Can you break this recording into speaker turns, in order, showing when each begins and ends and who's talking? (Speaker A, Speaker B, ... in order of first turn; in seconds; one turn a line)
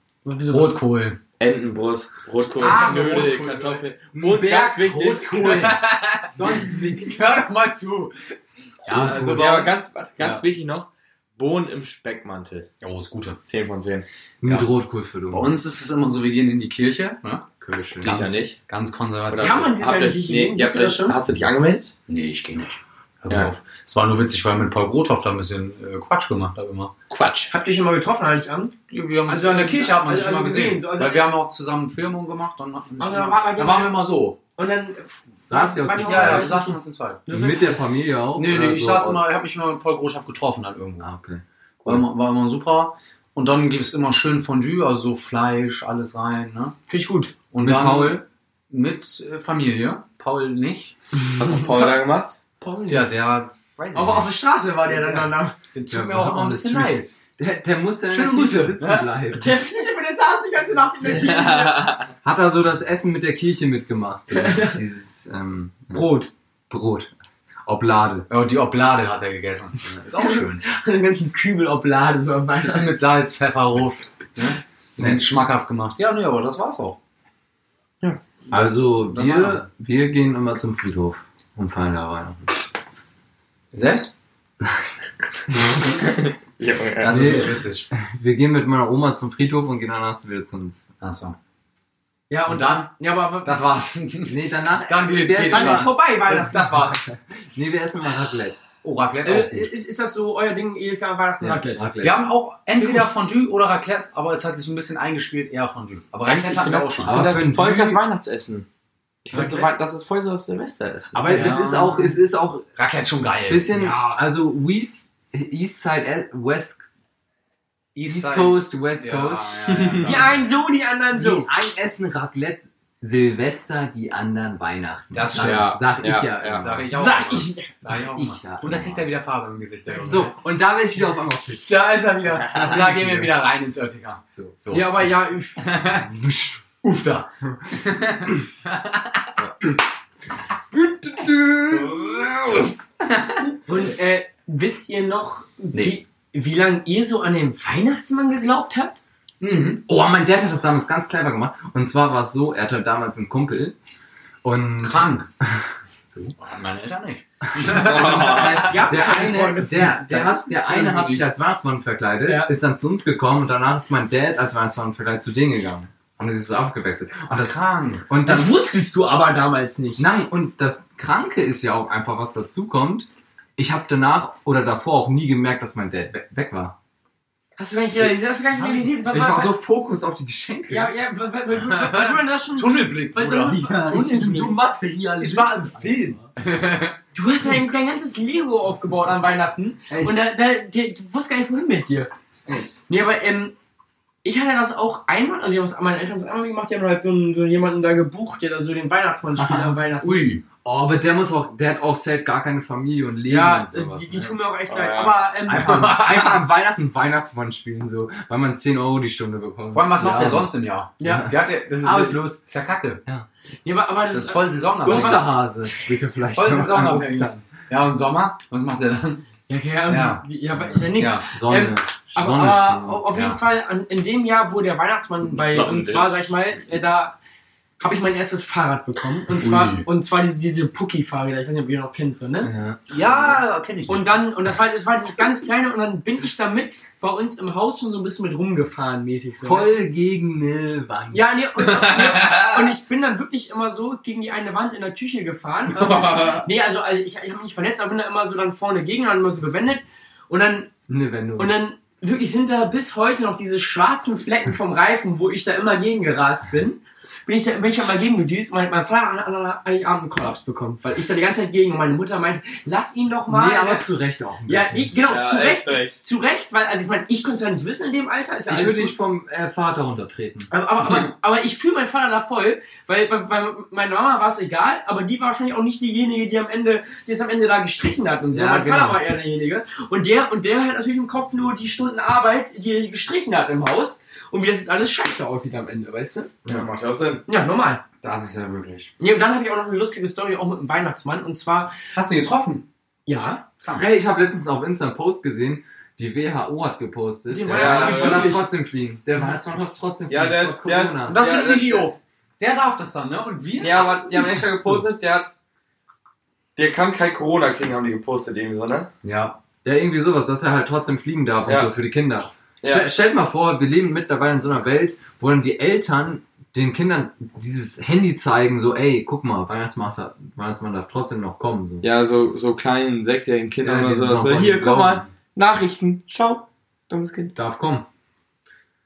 Speaker A: 0.2-0.8
Speaker B: 0.5-1.2
Speaker C: 1.4-5.6
Speaker B: 2.5-3.9
Speaker D: 2.6-3.4
Speaker D: 4.1-5.9
Speaker B: 5.4-8.2
Speaker D: 6.4-6.9
Speaker B: 8.8-10.4
Speaker C: 9.1-12.7
Speaker B: 12.8-13.4
Speaker C: 13.4-14.1
Speaker D: 14.4-15.5
Speaker B: 15.3-17.5
Speaker D: 17.6-18.1
Speaker B: 18.0-19.7
Speaker C: 18.0-18.6
Speaker C: 19.3-21.9
Speaker A: 19.4-21.2
Speaker B: 22.1-26.9
Speaker C: 27.1-27.5
Speaker A: 27.5-28.7
Speaker B: 28.9-34.4
Speaker A: 29.3-31.3
Speaker A: 33.0-37.8
Speaker D: 35.5-36.5
Speaker B: 36.0-37.2
Speaker D: 37.3-39.2
Speaker B: 38.4-41.1
Speaker D: 41.0-42.0
Speaker B: 41.8-46.7
Speaker A: 46.9-47.3
Speaker B: 47.5-50.9
Speaker D: 47.6-48.2
Speaker C: 51.4-52.4
Speaker A: 51.6-51.9
Speaker A: 52.6-53.1
Speaker B: 52.9-57.1
Speaker A: 53.9-55.5
Speaker D: 55.9-59.6
Speaker B: 58.1-59.1
Speaker A: 59.3-61.9
Speaker C: 61.0-62.1
Speaker D: 62.2-66.1
Speaker A: 64.3-64.8
Speaker A: 65.9-66.3
Speaker D: 66.7-67.1
Speaker D: 67.7-68.3
Speaker B: 68.3-70.6
Speaker A: 70.1-72.9
Speaker B: 72.6-77.0
Speaker D: 75.0-75.2
Speaker B: 78.5-79.7
Speaker D: 78.5-82.5
Speaker B: 83.7-84.1
Speaker C: 85.8-87.4
Speaker B: 87.0-87.9
Speaker D: 87.0-90.9
Speaker B: 91.0-91.3
Speaker A: 92.3-93.6
Speaker B: 92.5-97.0
Speaker D: 94.3-96.0
Speaker A: 95.4-97.1
Speaker D: 97.5-98.6
Speaker B: 98.8-99.7
Speaker A: 99.2-102.0
Speaker D: 101.5-102.2
Speaker B: 102.0-107.4
Speaker A: 106.2-107.0
Speaker C: 107.0-108.7
Speaker D: 107.0-108.0
Speaker C: 109.2-111.3
Speaker B: 109.3-109.7
Speaker A: 111.1-112.1
Speaker D: 111.1-112.7
Speaker B: 111.3-112.1
Speaker B: 112.8-113.7
Speaker D: 113.5-116.8
Speaker A: 113.7-114.2
Speaker B: 117.9-120.4
Speaker D: 118.0-120.2
Speaker C: 119.7-120.1
Speaker A: 120.0-121.5
Speaker D: 121.1-126.8
Speaker B: 125.1-125.8
Speaker C: 125.3-126.7
Speaker B: 126.4-130.3
Speaker A: 126.9-127.7
Speaker D: 127.8-129.0
Speaker D: 130.0-131.8
Speaker B: 131.6-136.1
Speaker D: 132.4-133.3
Speaker D: 134.3-134.6
Speaker A: 134.7-135.7
Speaker D: 136.1-136.6
Speaker B: 136.8-139.3
Speaker D: 140.7-142.6
Speaker B: 141.7-142.5
Speaker B: 143.0-143.5
Speaker A: 143.7-149.0
Speaker B: 149.4-149.8
Speaker D: 149.8-153.7
Speaker D: 154.4-156.3
Speaker B: 154.8-155.3
Speaker B: 156.3-161.2
Speaker D: 157.6-168.6
Speaker C: 157.8-158.8
Speaker A: 158.6-160.1
Speaker A: 162.2-162.5
Speaker B: 167.3-168.1
Speaker A: 168.2-170.1
Speaker D: 170.0-176.8
Speaker A: 177.6-179.5
Speaker D: 178.0-180.9
Speaker A: 180.7-184.6
Speaker B: 181.5-183.6
Speaker D: 183.4-186.3
Speaker B: 185.2-187.0
Speaker A: 187.1-192.1
Speaker D: 189.9-190.3
Speaker D: 192.4-192.8
Speaker A: 192.9-193.5
Speaker A: 194.2-200.3
Speaker D: 199.4-199.8
Speaker B: 200.0-200.4
Speaker D: 200.6-204.4
Speaker A: 203.2-206.0
Speaker C: 204.7-205.2
Speaker B: 205.5-206.4
Speaker D: 205.5-212.4
Speaker B: 209.7-213.0
Speaker A: 211.0-211.3
Speaker A: 213.6-215.8
Speaker B: 214.1-215.3
Speaker D: 214.8-217.4
Speaker B: 216.3-219.2
Speaker A: 219.5-227.2
Speaker B: 219.9-221.2
Speaker D: 221.3-222.8
Speaker B: 222.2-223.4
Speaker C: 225.2-226.2
Speaker A: 227.8-232.5
Speaker B: 229.4-229.9
Speaker D: 232.4-232.8
Speaker B: 232.9-234.2
Speaker A: 233.9-239.8
Speaker D: 239.4-241.4
Speaker A: 241.1-250.7
Speaker B: 241.6-242.7
Speaker B: 245.7-246.5
Speaker D: 250.9-251.5
Speaker A: 251.4-263.9
Speaker D: 263.3-264.9
Speaker A: 264.5-268.9
Speaker C: 265.0-266.0
Speaker D: 268.5-270.5
Speaker A: 270.5-286.3
Speaker D: 278.3-279.0
Speaker C: 286.4-287.2
Speaker A: 287.3-287.8
Speaker B: 288.0-288.9
Speaker A: 289.0-291.7
Speaker B: 291.9-292.6
Speaker A: 293.1-293.4
Speaker B: 293.6-293.9
Speaker D: 293.8-301.2
Speaker A: 297.3-298.5
Speaker C: 297.5-298.3
Speaker C: 300.1-301.9
Speaker B: 301.1-304.5
Speaker C: 303.6-305.3
Speaker C: 306.6-308.9
Speaker B: 309.0-309.4
Speaker D: 309.6-321.8
Speaker C: 311.4-311.7
Speaker C: 312.6-312.9
Speaker C: 321.8-327.3
Speaker D: 323.6-325.1
Speaker B: 327.4-327.8